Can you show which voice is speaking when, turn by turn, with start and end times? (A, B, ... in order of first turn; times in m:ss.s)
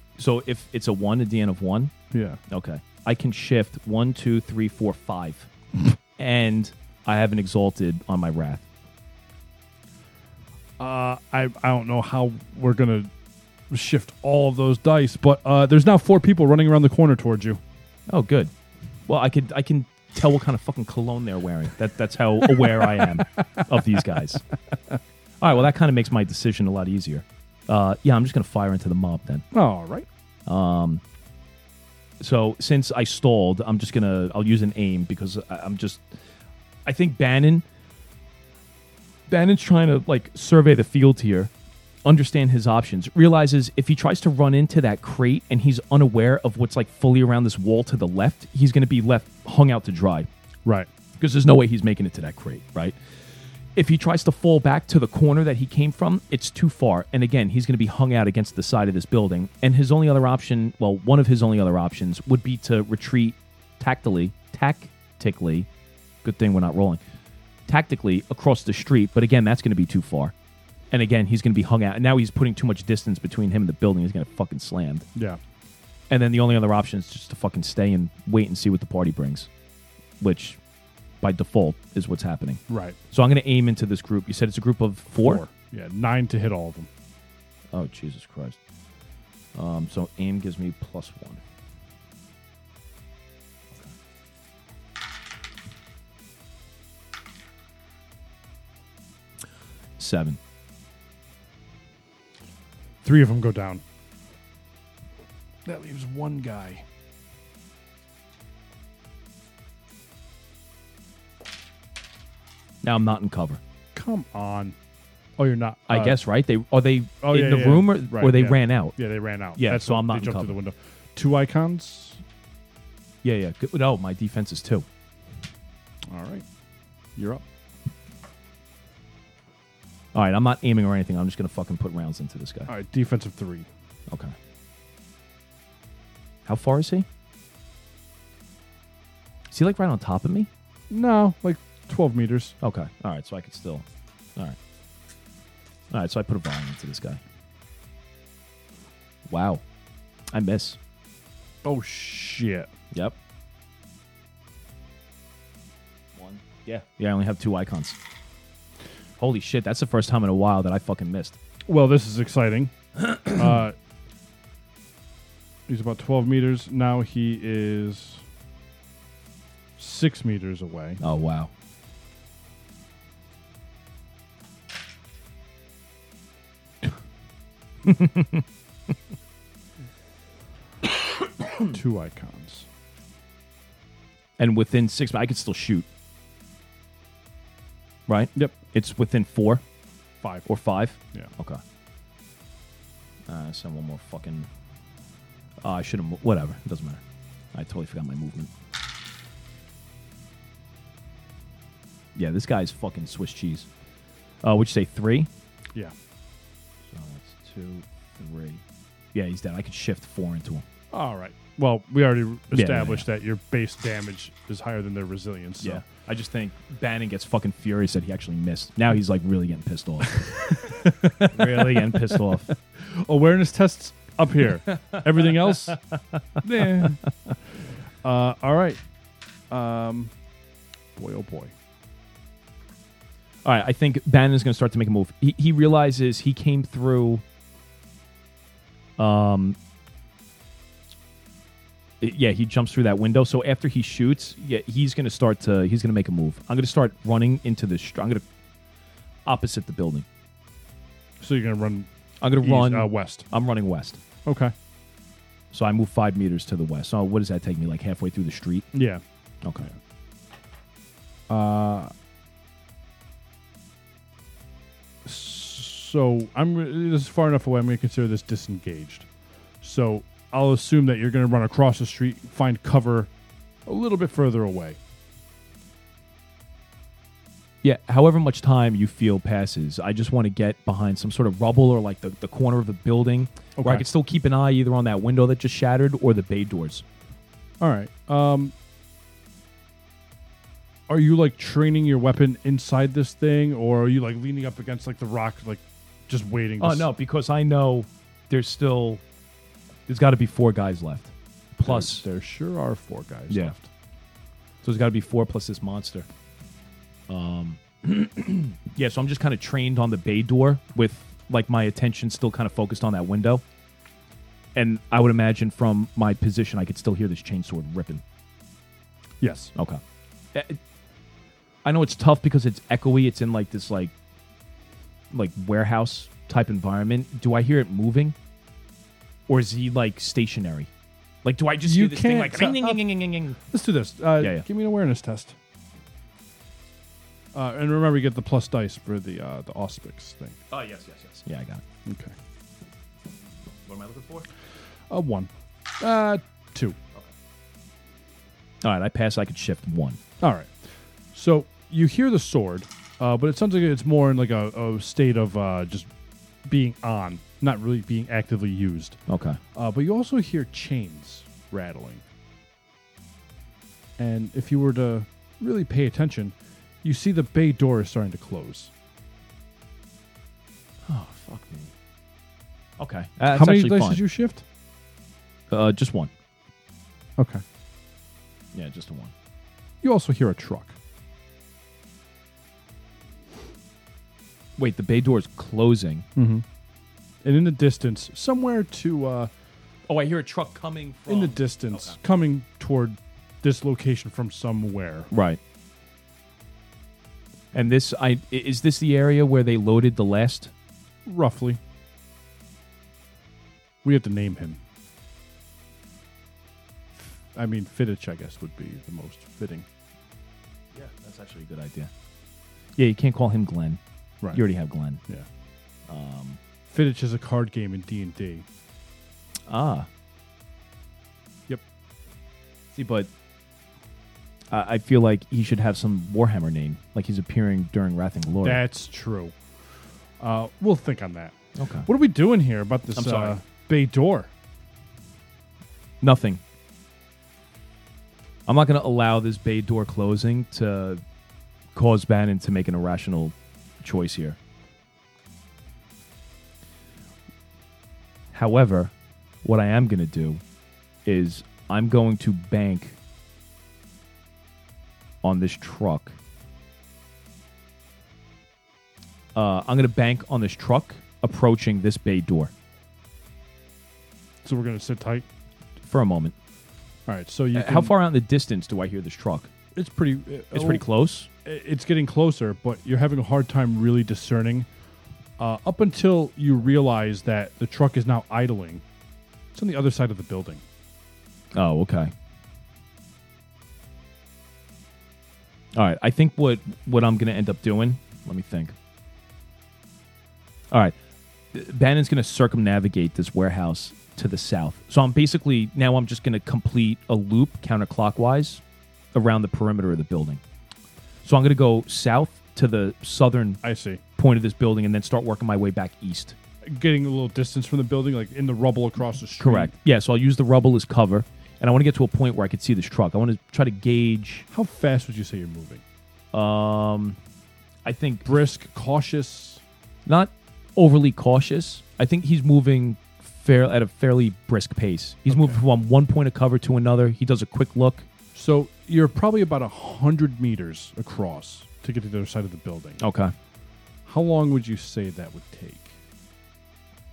0:00.2-0:01.9 A
0:02.1-0:02.4 B
0:02.5-0:05.5 A
0:06.2-0:08.6 A
0:10.8-0:13.1 B
0:13.7-0:17.6 B
0:18.1-0:18.5 A
0:19.1-0:24.4 A
0:25.4-0:29.4 A
0:29.5-0:30.1 B
0:30.5-0:31.0 A
0:32.2-0:36.0 A
0:36.8-0:37.6 A
0:39.3-0:41.5 A
0:42.0-0:50.3 A
0:51.2-0:53.0 A
0:53.7-1:05.7 A
1:06.2-1:07.0 A
1:07.7-1:10.3 A
1:10.9-1:15.1 A
1:15.1-1:15.4 B
1:16.1-1:19.5 A
1:20.2-1:20.6 A
1:21.2-1:25.4 A
1:22.7-1:23.0 B
1:25.2-1:26.9 B
1:27.7-1:28.6 A
1:29.5-1:31.4 A
1:40.0-1:40.4 A
1:43.0-1:43.8 B
1:45.6-1:46.8 B
1:52.8-1:53.6 A
1:53.9-1:54.8 B
1:55.4-1:56.2 B
1:55.9-1:59.0 A
1:57.2-2:02.2 B
1:59.6-2:00.5 A
2:03.2-2:04.8 A
2:06.1-2:06.4 B
2:07.2-2:07.4 B
2:10.1-2:12.7 A
2:12.7-2:13.7 B
2:14.1-2:14.3 A
2:16.4-2:17.1 A
2:19.5-2:20.5 A
2:20.9-2:22.6 B
2:22.6-2:24.6 A
2:25.9-2:27.2 A
2:29.3-2:29.6 A
2:30.3-2:30.8 A
2:31.6-2:32.7 B
2:32.9-2:33.2 A
2:36.2-2:38.0 A
2:39.2-2:41.4 A
2:41.7-2:43.7 B
2:45.7-2:48.2 B
2:49.8-2:51.0 B
2:51.0-2:51.5 A
2:57.8-2:58.4 A
3:01.6-3:02.7 B
3:04.4-3:05.8 A
3:08.1-3:09.6 A
3:10.2-3:10.5 B
3:10.4-3:11.6 A
3:13.3-3:14.5 A
3:15.6-3:17.0 A
3:17.5-3:18.5 A
3:22.1-3:23.7 A
3:24.4-3:25.3 A
3:26.9-3:28.6 A
3:29.1-3:30.6 A
3:30.9-3:35.8 B
3:32.5-3:33.1 A
3:35.6-3:40.4 A
3:40.1-3:45.8 B
3:41.2-3:42.5 A
3:44.7-3:46.9 A
3:46.4-3:47.0 B
3:48.0-3:48.8 B
3:49.5-3:50.1 B
3:51.0-3:51.5 B
3:53.4-3:57.2 A
3:59.0-3:59.6 A
4:02.0-4:08.2 A
4:09.2-4:10.0 A
4:11.2-4:11.9 B
4:12.2-4:14.0 A
4:12.4-4:13.3 B
4:14.2-4:14.5 B
4:15.5-4:18.7 A
4:18.7-4:19.0 B
4:19.4-4:19.7 A
4:21.3-4:21.9 B
4:25.0-4:29.1 B
4:29.6-4:33.1 B
4:33.6-4:34.8 B
4:37.6-4:46.8 A
4:43.6-4:43.8 B
4:47.6-4:48.5 B
4:50.9-4:56.9 B
4:56.6-4:59.0 A
4:59.9-5:02.0 A
5:01.6-5:03.7 B
5:03.3-5:03.5 A
5:04.6-5:06.1 A
5:07.1-5:13.4 A
5:14.5-5:18.0 A
5:19.2-5:19.5 B
5:19.5-5:19.8 A
5:20.3-5:20.6 A
5:21.6-5:23.9 A
5:25.1-5:28.2 A
5:29.3-5:30.7 A
5:31.2-5:33.4 A
5:31.6-5:32.8 B
5:33.4-5:35.4 B
5:34.2-5:34.4 A
5:37.3-5:40.4 B
5:40.5-5:41.6 A
5:41.8-5:42.1 B
5:43.6-5:44.3 A
5:44.9-5:46.8 B
5:48.6-5:50.0 A
5:50.2-5:55.9 B
5:56.4-5:59.0 B
5:59.1-5:59.4 A
5:59.5-6:02.0 B
6:04.0-6:08.7 B
6:10.8-6:11.7 A
6:12.8-6:14.0 A
6:13.3-6:14.4 B
6:15.5-6:16.1 A
6:17.2-6:17.4 B
6:18.5-6:19.1 A
6:19.8-6:20.8 B
6:24.6-6:26.0 A
6:26.2-6:26.4 B
6:27.2-6:29.3 B
6:29.9-6:32.0 A
6:31.1-6:35.1 B
6:35.1-6:35.4 A
6:37.5-6:40.5 A
6:41.0-6:41.6 B
6:43.8-6:44.6 B
6:46.9-6:49.7 B
6:50.7-6:51.9 A
6:52.8-6:53.8 A
6:54.3-6:55.0 A
6:55.9-6:56.4 A
6:56.7-6:58.4 B
6:59.5-6:59.9 A
7:02.7-7:03.1 A
7:04.5-7:08.6 A
7:08.4-7:09.3 B
7:10.2-7:11.4 B
7:11.5-7:11.9 A
7:11.9-7:14.3 B
7:12.9-7:13.4 A
7:16.0-7:16.4 A
7:18.5-7:21.0 A
7:21.7-7:24.4 A
7:28.3-7:28.9 A
7:29.4-7:30.4 A
7:31.0-7:33.0 A
7:35.2-7:36.2 A
7:39.3-7:42.5 A
7:44.4-7:45.2 B
7:45.8-7:46.3 A
7:47.1-7:47.9 B
7:47.5-7:49.5 A
7:49.7-7:50.8 B
7:50.5-7:51.3 A
7:51.4-7:54.7 B
7:55.4-7:58.8 B
7:59.5-8:00.6 B
8:01.5-8:02.1 A
8:05.7-8:08.7 A
8:10.7-8:11.0 A
8:11.5-8:18.6 A
8:19.1-8:20.4 A
8:21.2-8:23.6 A
8:23.6-8:24.0 B
8:24.2-8:26.4 A
8:26.6-8:29.7 B
8:29.4-8:34.5 A
8:34.5-8:35.8 B
8:36.3-8:37.2 A
8:37.8-8:38.3 A
8:38.2-8:39.6 B
8:40.0-8:48.1 A
8:45.3-8:45.6 B
8:48.3-8:53.0 B
8:53.0-8:53.3 A
8:54.0-8:56.0 B